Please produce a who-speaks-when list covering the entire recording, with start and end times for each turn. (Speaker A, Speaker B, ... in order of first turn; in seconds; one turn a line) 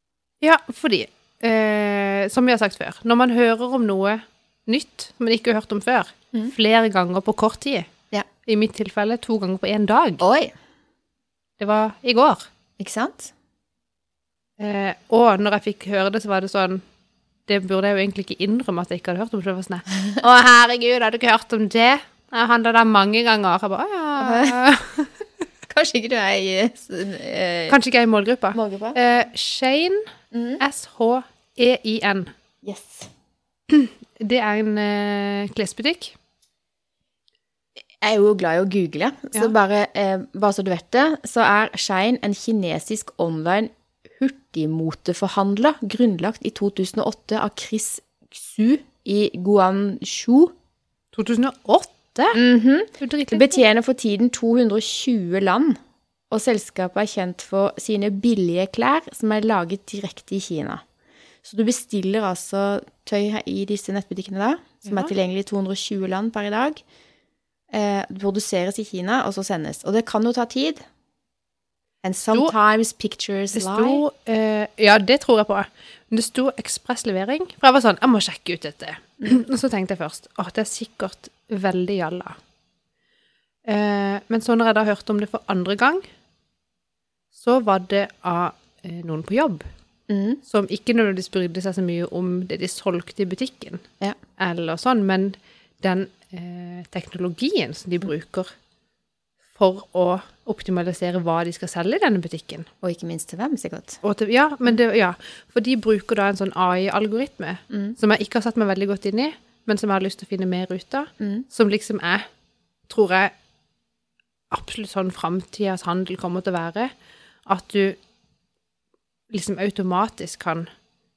Speaker A: 0.4-7.9
Speaker A: 8.5-10.2
Speaker B: 10.2-10.5
Speaker A: 11.6-12.5
Speaker B: 12.8-13.3
Speaker A: 14.6-16.8
Speaker A: 17.5-25.1
Speaker B: 24.2-24.6
Speaker B: 25.7-27.8
Speaker A: 27.7-32.3
Speaker B: 28.5-29.0
Speaker B: 30.3-30.6
Speaker B: 32.6-33.1
Speaker A: 33.7-36.1
Speaker B: 38.0-50.5
Speaker A: 51.1-52.4
Speaker B: 52.3-55.8
Speaker A: 53.0-53.6
Speaker B: 56.3-60.8
Speaker B: 61.4-66.8
Speaker A: 64.8-65.1
Speaker B: 67.7-70.8
Speaker B: 72.0-74.0
Speaker A: 73.5-82.4
Speaker A: 83.7-86.0
Speaker A: 87.3-89.7
Speaker B: 90.1-90.4
Speaker A: 90.5-93.9
Speaker A: 94.4-98.5
Speaker A: 99.5-102.7
Speaker B: 102.8-104.0
Speaker A: 104.0-112.3
Speaker B: 107.7-108.0
Speaker B: 111.2-111.5
Speaker A: 112.9-113.3
Speaker A: 114.5-116.9
Speaker A: 117.5-118.0
Speaker A: 119.3-120.7